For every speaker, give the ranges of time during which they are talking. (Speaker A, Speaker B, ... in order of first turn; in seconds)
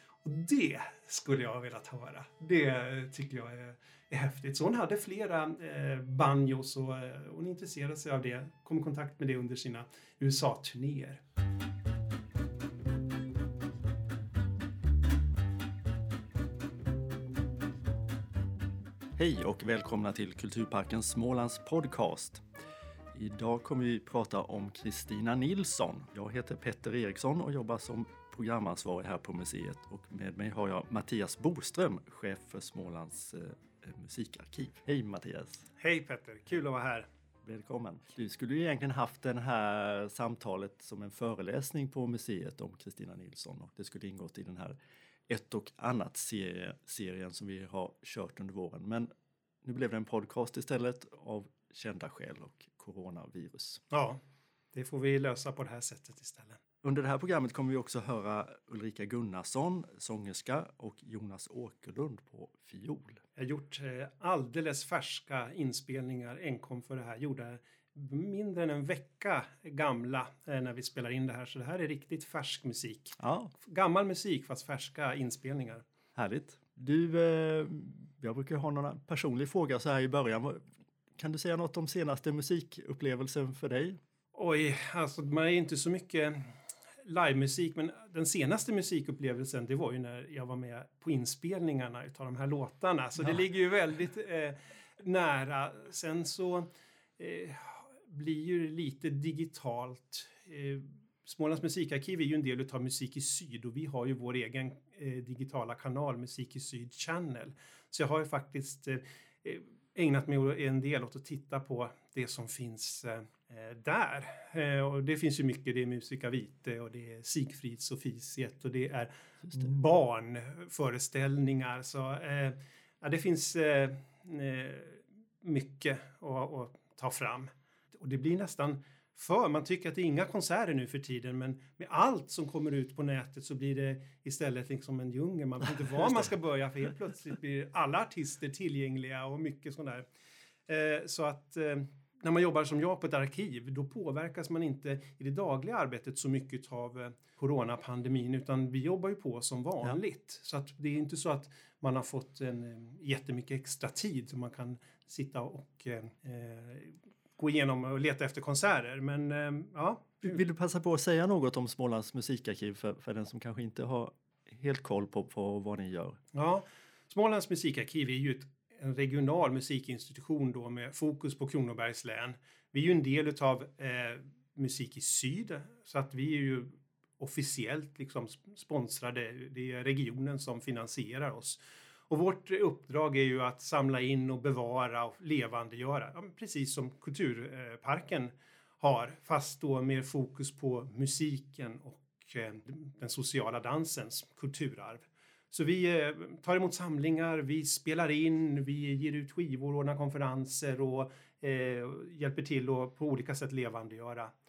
Speaker A: 0.2-11.2, 35.8-37.0, 53.9-54.2, 54.7-56.6, 63.4-75.8, 84.3-86.5, 87.0-140.1, 140.7-160.4, 166.3-204.3
Speaker B: 19.1-22.4, 23.1-35.7, 37.4-44.8, 45.3-49.1, 49.6-53.8, 56.8-63.2, 73.2-73.5, 76.2-80.6, 81.2-84.0, 160.2-166.2